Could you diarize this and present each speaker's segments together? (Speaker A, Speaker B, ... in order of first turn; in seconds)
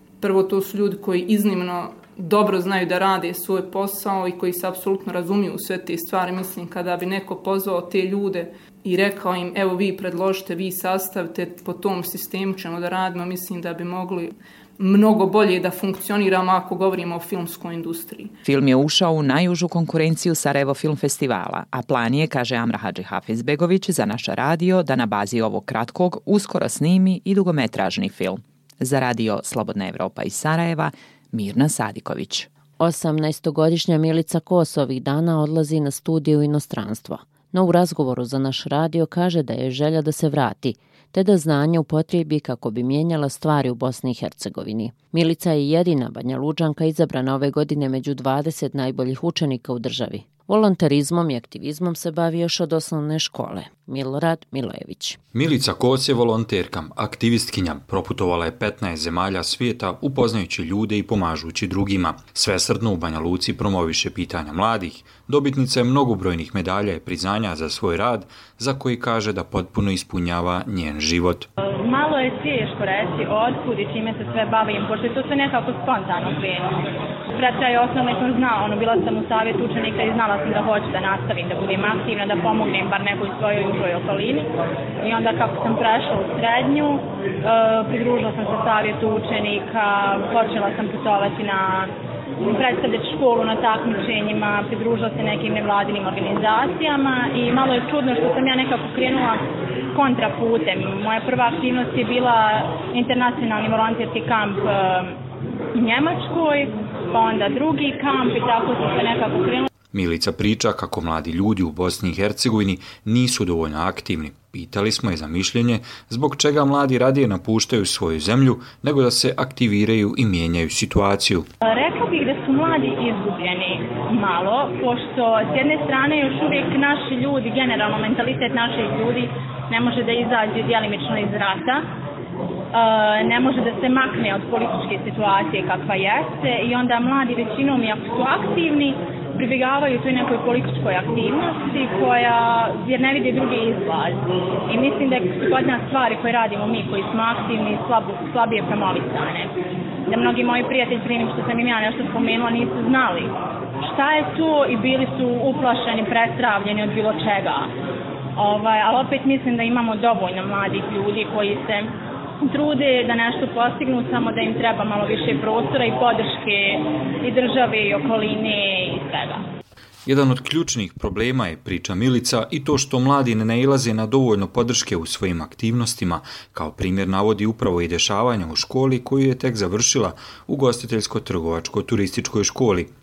Speaker A: 0.2-18.3
Speaker B: 18.4-32.5
Speaker C: 32.8-55.2
Speaker D: 55.3-71.5, 109.9-121.5, 170.1-182.9
Speaker E: 71.6-76.7, 77.3-84.5, 85.0-91.9, 92.4-99.4, 99.9-105.2, 105.8-109.7, 121.7-131.8, 132.7-149.5, 150.1-153.3, 153.8-157.7, 158.4-161.9, 162.4-169.4